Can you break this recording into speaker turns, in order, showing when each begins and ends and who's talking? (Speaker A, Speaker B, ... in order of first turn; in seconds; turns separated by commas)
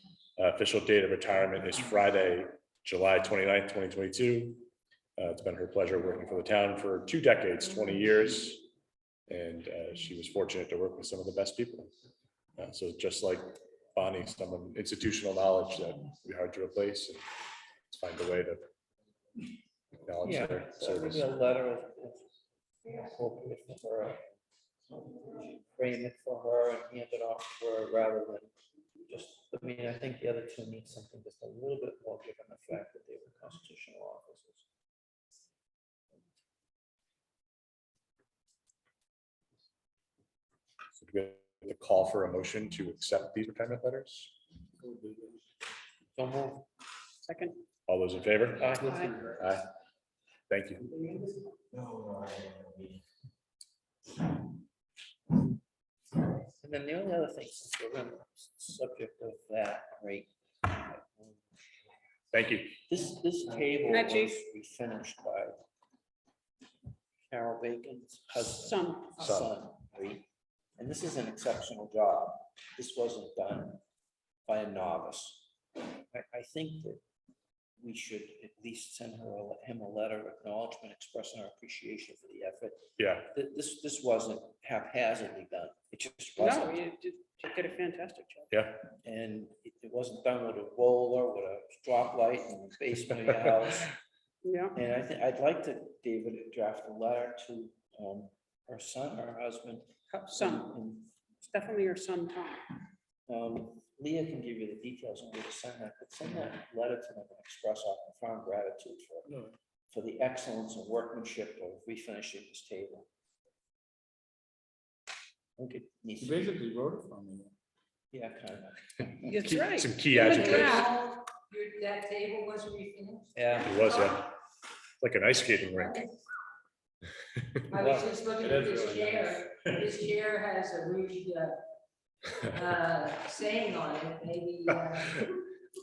Speaker A: 0.4-8.7, Speaker A: 9.3-11.9, Speaker A: 12.6-17.2, Speaker A: 17.9-18.7, Speaker A: 20.0-21.3, Speaker B: 20.2-22.3, Speaker B: 22.9-24.3, Speaker B: 24.9-28.5, Speaker B: 29.1-34.6, Speaker A: 41.0-44.3, Speaker C: 44.8-45.4, Speaker B: 46.1-46.7, Speaker D: 47.2-47.6, Speaker A: 47.9-49.6, Speaker B: 48.5-49.4, Speaker A: 50.5-50.8, Speaker B: 52.4-52.7, Speaker B: 56.5-61.4, Speaker A: 62.3-62.8, Speaker B: 62.9-65.6, Speaker D: 63.9-64.3, Speaker B: 67.3-70.3, Speaker D: 68.5-69.2, Speaker A: 69.2-69.5, Speaker B: 70.8-73.8, Speaker B: 74.5-75.5, Speaker B: 76.1-77.0, Speaker B: 77.8-86.8, Speaker A: 83.0-83.3, Speaker D: 86.4-88.5, Speaker A: 88.5-88.8, Speaker B: 88.9-93.9, Speaker D: 94.4-94.8, Speaker B: 94.7-101.1, Speaker D: 100.1-100.8, Speaker D: 101.4-102.6, Speaker B: 103.3-109.3, Speaker C: 109.3-109.5, Speaker B: 109.9-113.1, Speaker B: 115.6-116.5, Speaker C: 116.2-117.5, Speaker B: 118.1-119.3, Speaker D: 119.2-120.9, Speaker A: 119.3-120.9, Speaker E: 120.1-124.2, Speaker B: 123.3-123.8, Speaker A: 123.6-124.3, Speaker A: 125.0-126.0, Speaker E: 125.7-126.1, Speaker A: 127.4-129.5, Speaker E: 127.7-131.6, Speaker E: 132.4-135.3